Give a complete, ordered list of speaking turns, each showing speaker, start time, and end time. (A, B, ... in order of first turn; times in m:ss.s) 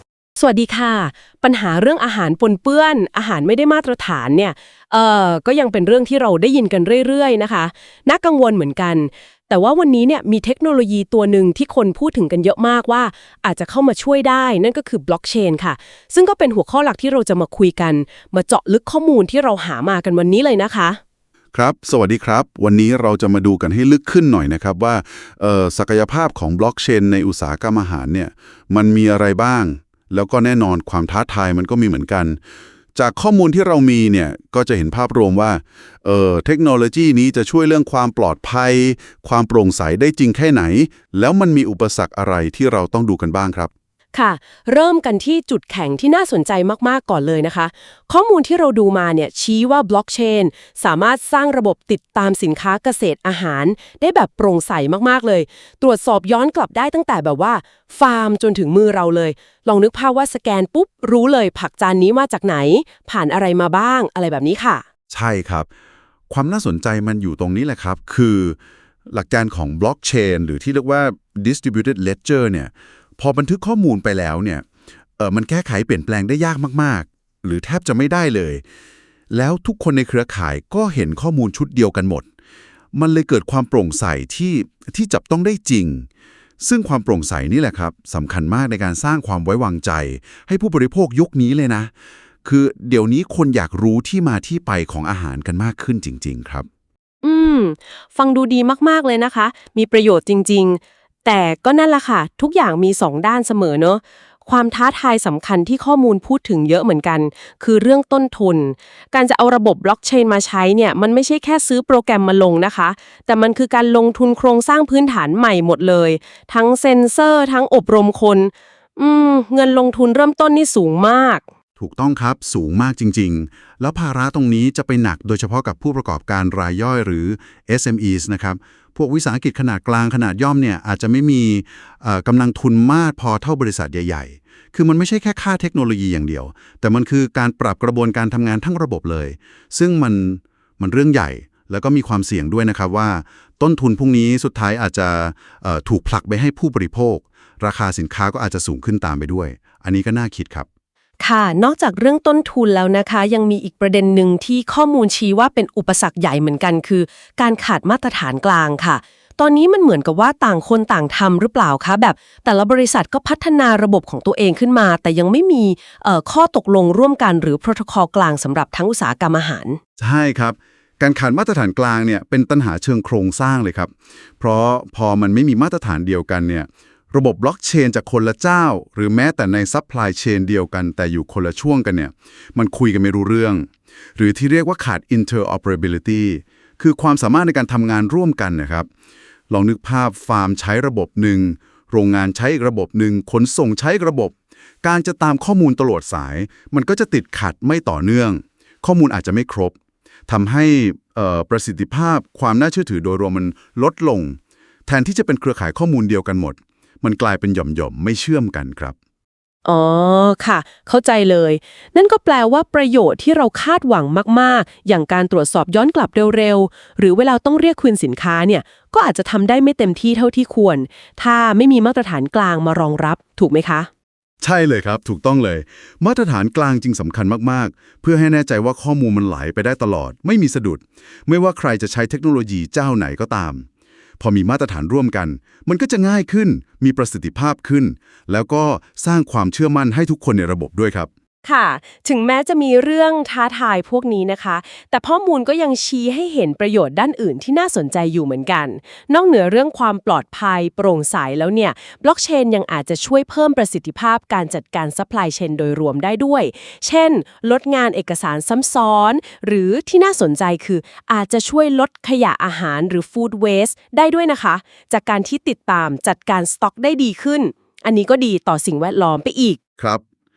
0:00.4-0:21.0 A
0:21.5-0:32.4 B
0:32.9-0:43.7 B
0:44.1-1:04.8 A
1:05.1-1:05.7 B
1:06.3-1:08.6 B
1:09.1-1:14.6 B
1:15.2-1:18.6 B
1:19.3-1:22.2 B
1:22.9-1:26.1 B
1:26.6-1:31.9 B
1:32.4-1:36.7 B
1:37.2-2:01.4 A
2:01.8-2:30.6 B
2:31.2-2:49.8 A
2:50.0-3:08.9 B
3:09.5-3:19.8 B
3:20.3-3:28.9 B
3:29.6-3:43.9 A
3:44.4-3:53.6 B
3:54.2-4:01.1 B
4:01.4-4:29.6 A
4:29.8-4:30.0 B